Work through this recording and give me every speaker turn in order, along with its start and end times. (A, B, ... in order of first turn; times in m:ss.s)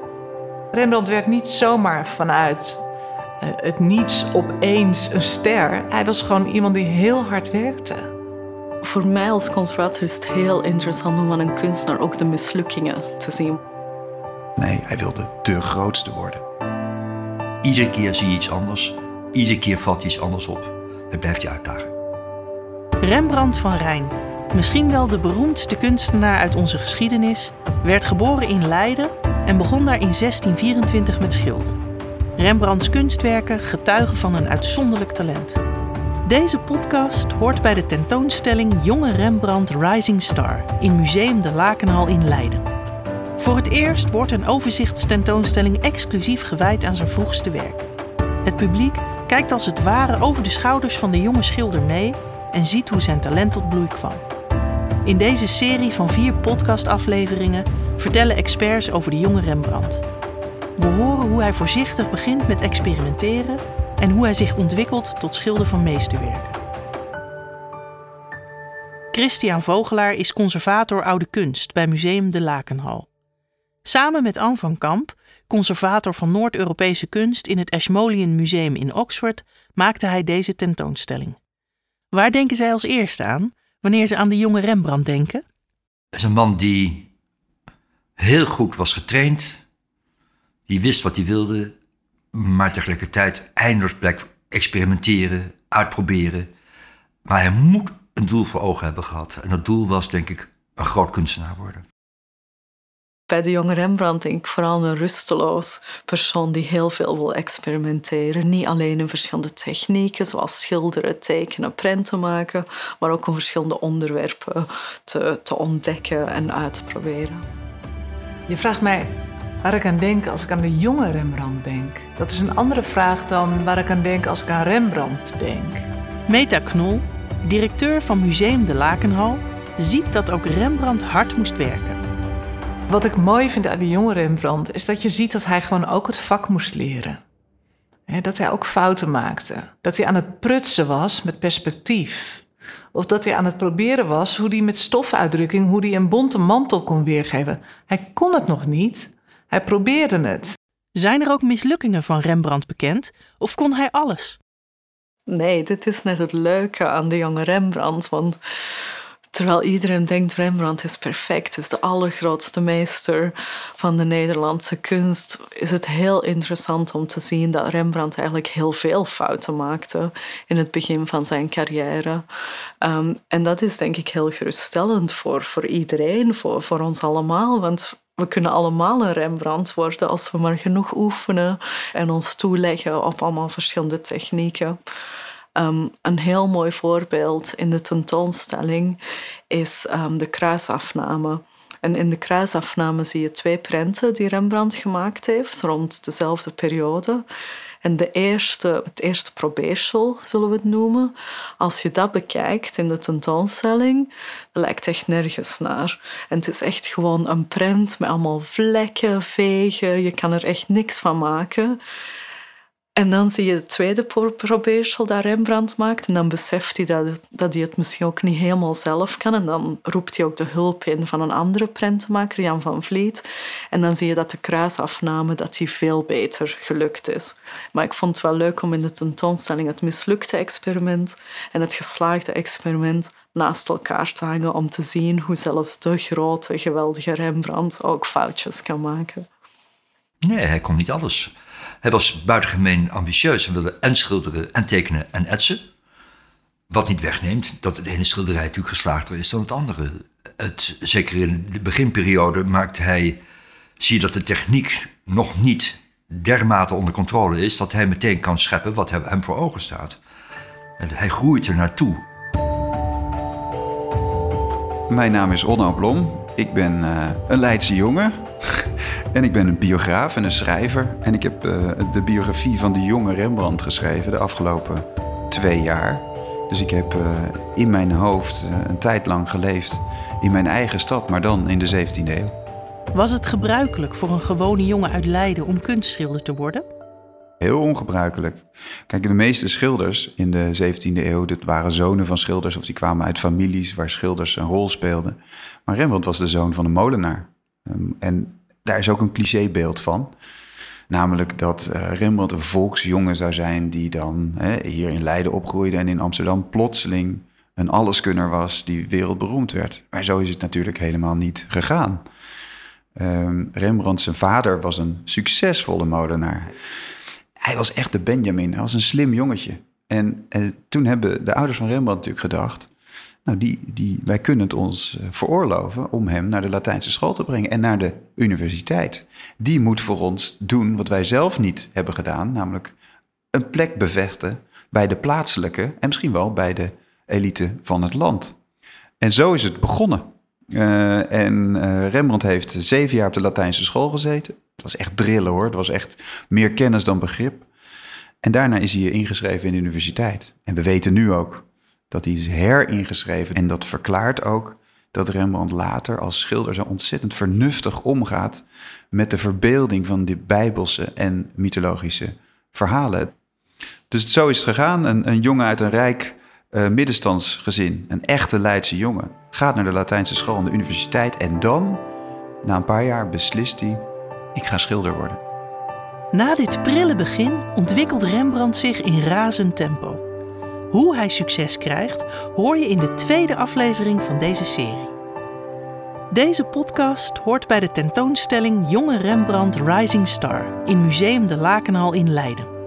0:00.7-0:02.8 A
0:03.4-0:08.1 A
0:08.8-0:13.6 B
0:14.6-0:16.4 C
0:17.6-0:21.9 D
0:23.0-0:31.8 E
0:32.4-0:35.6 E
0:36.2-0:42.7 E
0:43.4-0:47.9 E
0:48.4-0:54.2 E
0:55.0-1:00.0 E
1:00.8-1:06.6 E
1:09.1-1:13.1 E
1:13.8-1:21.4 E
1:22.1-1:25.4 E
1:26.1-1:27.1 D
1:28.2-1:29.6 D
1:30.7-1:31.7 D
1:32.3-1:36.5 D
1:37.2-1:41.8 D
1:43.3-1:57.4 B
1:58.5-2:05.9 A
2:06.3-2:12.0 E
2:12.9-2:17.2 A
2:18.1-2:30.6 A
2:31.0-2:34.4 E
2:35.3-2:38.4 B
2:39.3-2:52.2 B
2:52.8-3:04.8 B
3:05.6-3:09.0 B
3:09.5-3:17.2 B
3:17.8-3:31.8 B
3:33.0-3:59.2 B
4:00.2-4:05.6 D
4:06.7-4:13.2 D
4:13.8-4:20.0 D
4:20.8-4:22.0 D
4:24.9-4:42.3 C
4:42.9-4:46.6 E
4:47.4-5:00.1 C
5:00.9-5:12.0 C
5:13.0-5:16.5 C
5:17.4-5:22.7 C
5:23.2-5:32.7 C
5:33.3-5:38.4 C
5:39.0-5:47.5 C
5:48.2-6:03.1 C
6:03.9-6:11.8 C
6:12.4-6:15.2 C
6:16.1-6:20.0 E
6:20.7-6:24.9 E
6:26.1-6:32.5 E